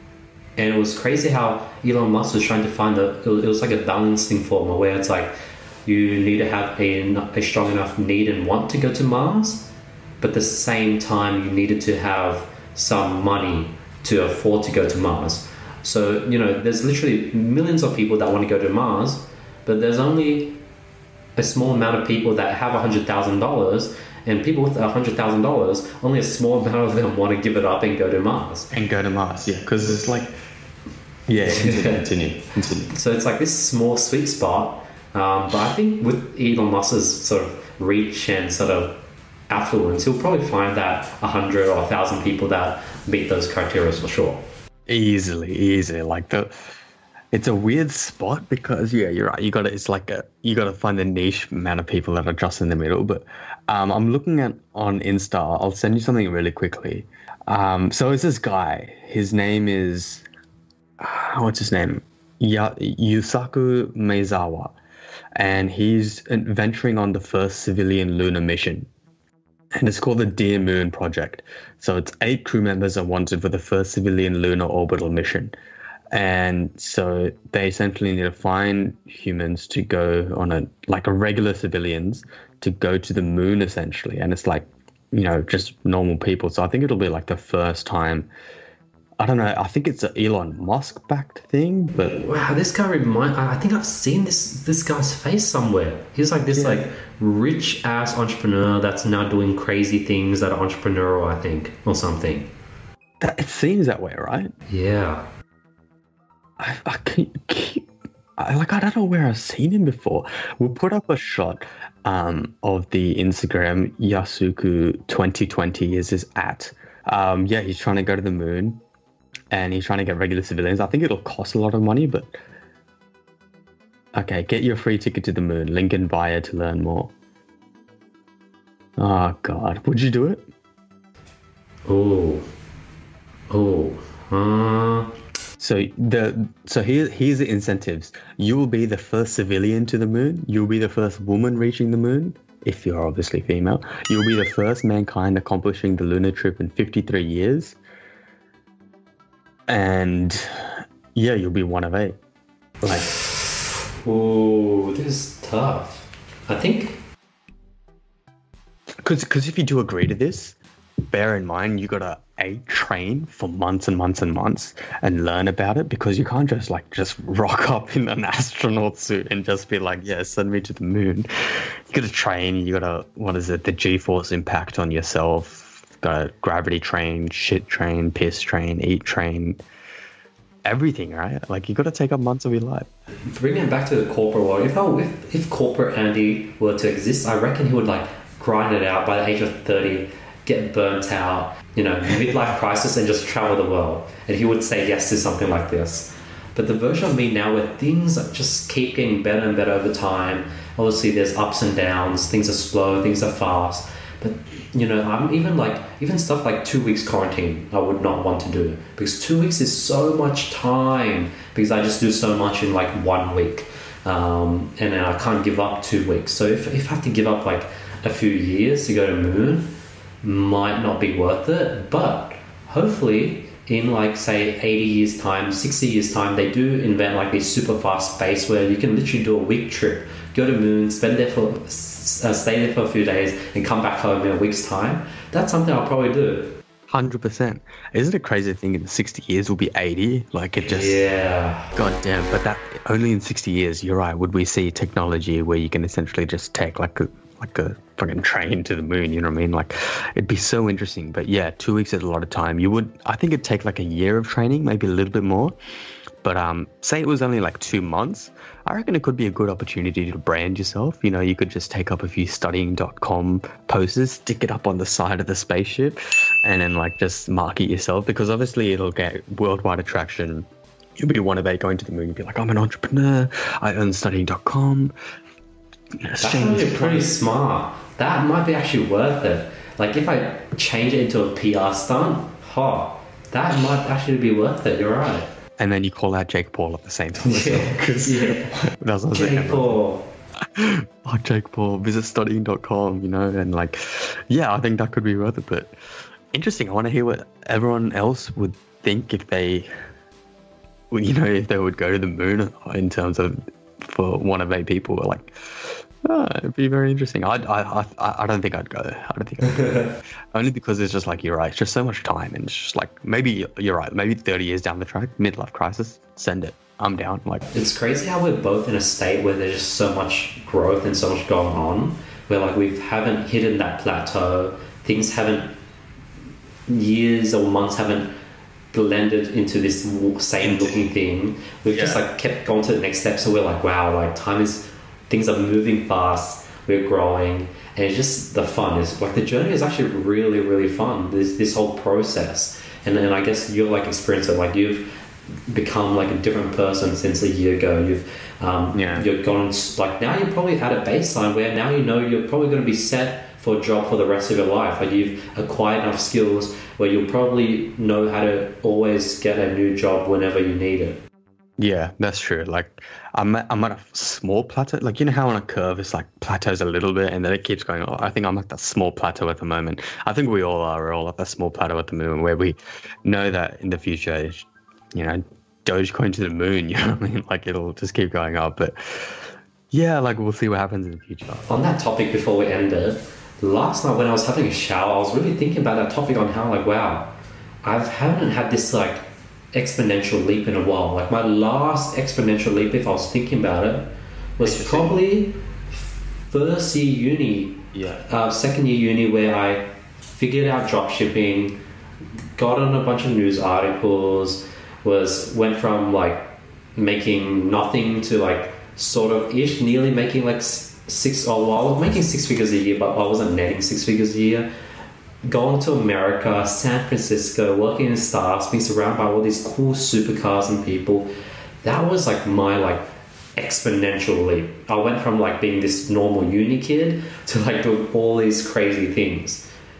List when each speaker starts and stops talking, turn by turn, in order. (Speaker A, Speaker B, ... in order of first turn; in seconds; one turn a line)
Speaker A: 0.6-5.3
Speaker A: 5.8-9.7
Speaker A: 10.2-20.6
Speaker A: 21.4-28.7
Speaker B: 28.7-30.3
Speaker B: 31.3-32.9
Speaker A: 31.5-32.0
Speaker A: 32.9-44.4
Speaker B: 44.9-46.5
Speaker B: 47.3-60.2
Speaker B: 61.0-64.7
Speaker B: 65.3-68.9
Speaker B: 69.7-75.5
Speaker B: 76.1-88.3
Speaker B: 89.2-92.2
Speaker A: 92.0-102.5
Speaker B: 96.5-96.8
Speaker B: 103.2-104.5
Speaker A: 104.7-105.3
Speaker B: 106.6-118.8
Speaker B: 119.5-122.3
Speaker B: 124.1-127.1
Speaker B: 129.0-130.5
Speaker A: 131.8-132.4
Speaker A: 133.5-135.1
Speaker B: 135.6-147.8
Speaker B: 149.7-152.2
Speaker B: 152.8-153.1
Speaker A: 154.0-157.0
Speaker B: 159.0-160.6
Speaker B: 161.1-179.6
Speaker B: 180.7-182.9
Speaker A: 183.3-236.6
Speaker B: 236.9-241.0
Speaker A: 240.6-241.7
Speaker B: 241.7-255.5
Speaker B: 256.2-274.9
Speaker B: 276.0-277.1
Speaker A: 276.2-285.3
Speaker B: 285.6-289.8
Speaker A: 287.2-288.5
Speaker A: 289.1-290.1
Speaker B: 290.4-295.7
Speaker B: 296.3-299.7
Speaker B: 300.9-317.5
Speaker A: 317.5-325.5
Speaker A: 326.7-328.1
Speaker A: 328.7-344.9
Speaker B: 330.4-330.8
Speaker B: 331.7-332.0
Speaker A: 345.5-361.0
Speaker B: 348.7-349.1
Speaker B: 361.6-381.5
Speaker A: 381.5-387.1
Speaker A: 387.6-401.6
Speaker B: 394.4-395.0
Speaker B: 397.7-398.0
Speaker A: 402.4-414.5
Speaker A: 415.2-421.1
Speaker A: 421.6-429.5